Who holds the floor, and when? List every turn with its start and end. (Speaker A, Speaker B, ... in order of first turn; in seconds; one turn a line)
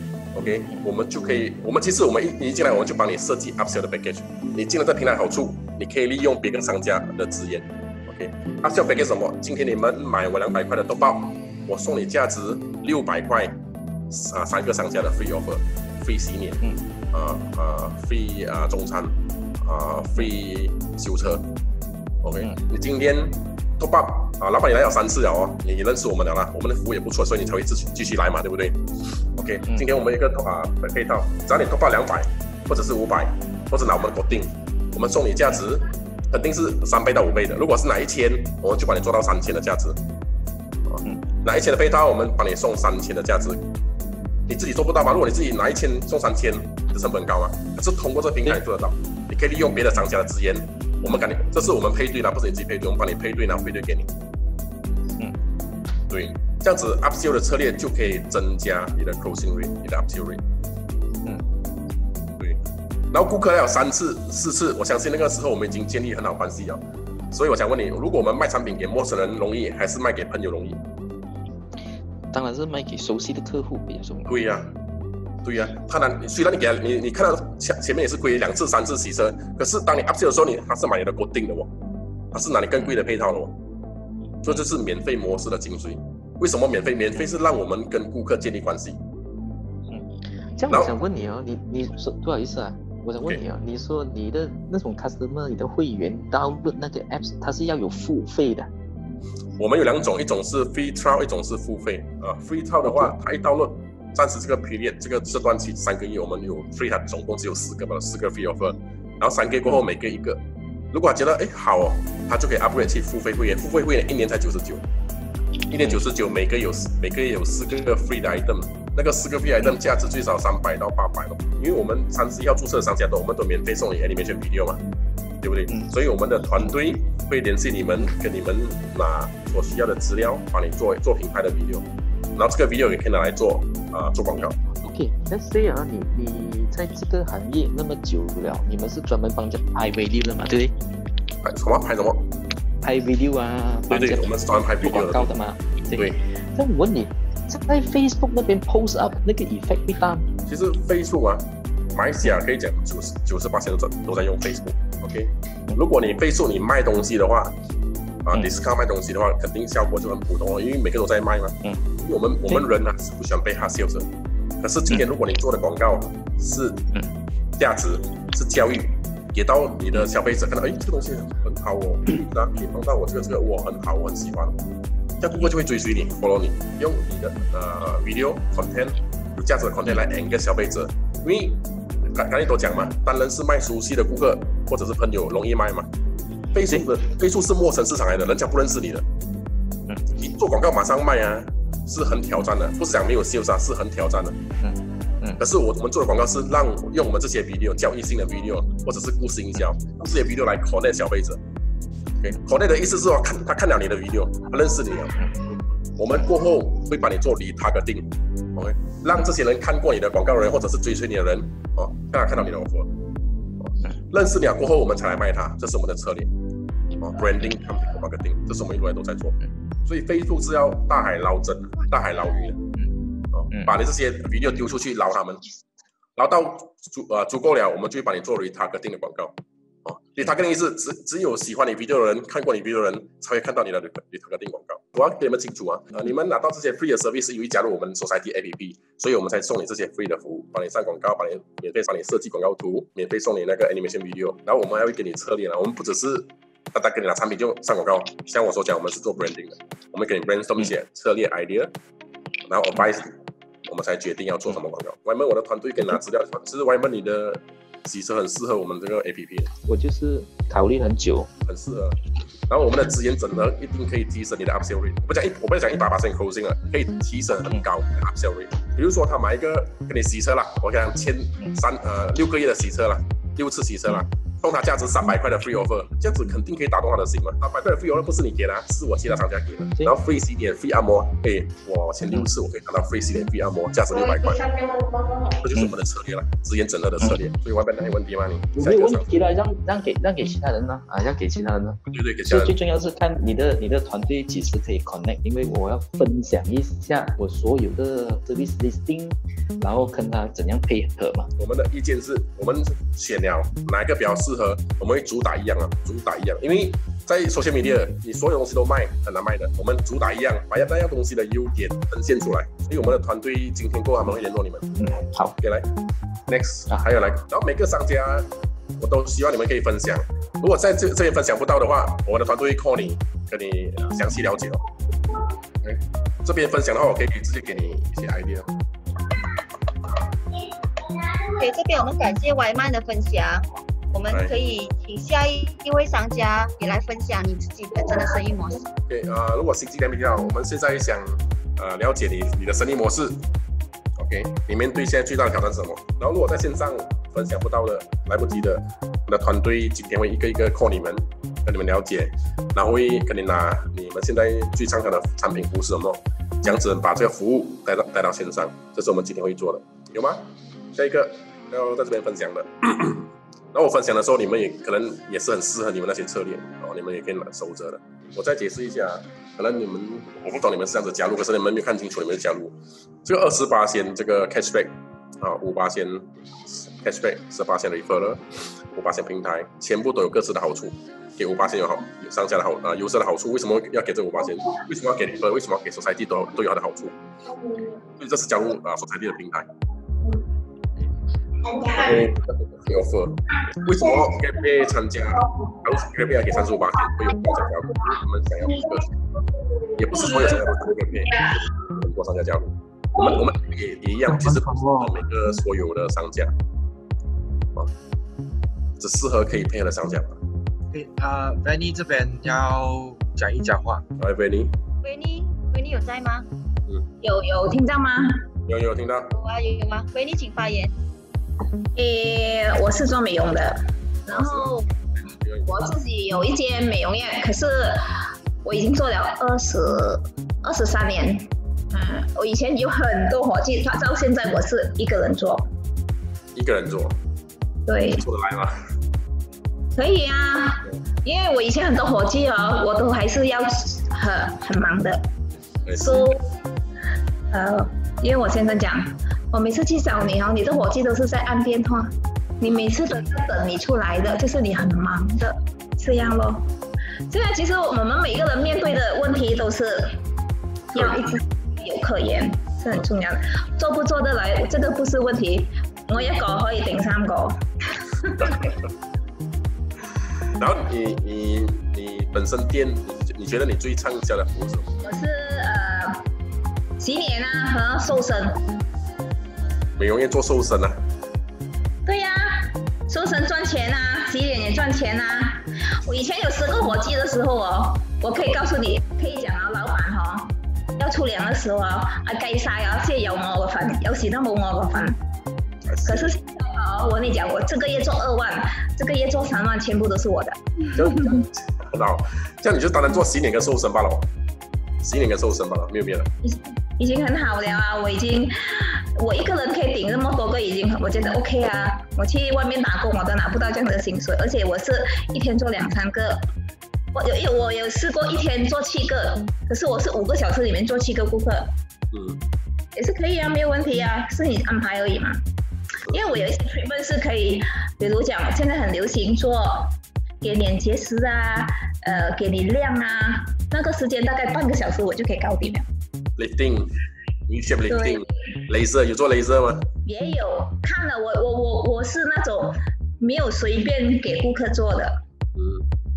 Speaker A: 0.3-13.6
Speaker A: 14.1-21.4
Speaker A: 22.2-28.8
Speaker A: 29.3-40.0
Speaker A: 40.9-43.6
Speaker A: 44.5-54.1
Speaker A: 56.1-60.4
Speaker A: 63.1-70.8
Speaker B: 72.3-74.4
Speaker A: 74.2-74.7
Speaker A: 75.4-81.7
Speaker A: 82.3-83.5
Speaker A: 84.4-89.0
Speaker B: 90.5-98.7
Speaker A: 90.7-90.9
Speaker A: 99.6-114.8
Speaker A: 115.7-124.8
Speaker A: 125.4-134.6
Speaker B: 134.8-140.8
Speaker A: 141.4-142.3
Speaker B: 142.8-150.3
Speaker A: 143.9-145.3
Speaker A: 150.4-157.5
Speaker A: 158.2-164.1
Speaker A: 164.6-166.9
Speaker A: 167.6-174.6
Speaker A: 175.2-185.9
Speaker A: 186.5-189.1
Speaker A: 190.1-194.4
Speaker A: 195.4-201.4
Speaker A: 202.2-205.2
Speaker A: 206.0-212.9
Speaker A: 213.6-216.3
Speaker A: 217.0-222.6
Speaker A: 223.3-225.4
Speaker A: 226.2-251.7
Speaker A: 252.5-259.5
Speaker B: 259.6-261.3
Speaker A: 261.5-284.5
Speaker C: 284.1-285.4
Speaker A: 285.4-289.1
Speaker B: 288.5-301.3
Speaker A: 291.9-292.6
Speaker A: 301.4-314.7
Speaker B: 314.8-315.3
Speaker A: 315.4-315.7
Speaker A: 316.3-324.6
Speaker A: 325.6-328.5
Speaker D: 331.4-338.7
Speaker A: 334.1-334.4
Speaker A: 338.9-343.2
Speaker A: 344.0-372.5
Speaker A: 373.0-386.9
Speaker A: 388.0-389.5
Speaker C: 391.4-392.0
Speaker A: 391.7-398.9
Speaker C: 393.7-394.1
Speaker C: 395.3-395.6
Speaker C: 398.5-398.8
Speaker A: 399.7-406.3
Speaker C: 399.9-400.5
Speaker C: 401.1-401.4
Speaker A: 408.8-410.2
Speaker E: 410.7-413.8
Speaker A: 414.0-414.5
Speaker D: 414.8-416.3
Speaker C: 417.0-418.2
Speaker A: 418.5-419.1
Speaker D: 419.1-420.7
Speaker C: 421.8-424.7
Speaker A: 424.1-424.5
Speaker A: 425.1-425.5
Speaker C: 425.4-435.5
Speaker A: 436.4-437.0
Speaker C: 437.7-438.0
Speaker A: 437.9-438.6
Speaker C: 439.8-445.0
Speaker A: 445.6-446.2
Speaker C: 445.8-446.2
Speaker C: 447.3-456.5
Speaker C: 457.1-459.9
Speaker C: 460.7-467.4
Speaker A: 460.7-461.1
Speaker C: 468.0-468.5
Speaker A: 470.4-474.7
Speaker C: 474.8-476.0
Speaker C: 476.8-478.4
Speaker A: 479.8-480.8
Speaker C: 481.9-495.0
Speaker A: 495.6-496.1
Speaker C: 495.9-501.2
Speaker A: 500.7-504.1
Speaker A: 504.8-506.1
Speaker C: 506.2-516.2
Speaker C: 516.9-521.5
Speaker A: 521.9-522.2
Speaker C: 522.7-525.2
Speaker A: 525.9-526.2
Speaker C: 525.9-535.7
Speaker A: 536.2-539.7
Speaker C: 537.7-538.1
Speaker C: 539.9-545.0
Speaker A: 545.4-545.6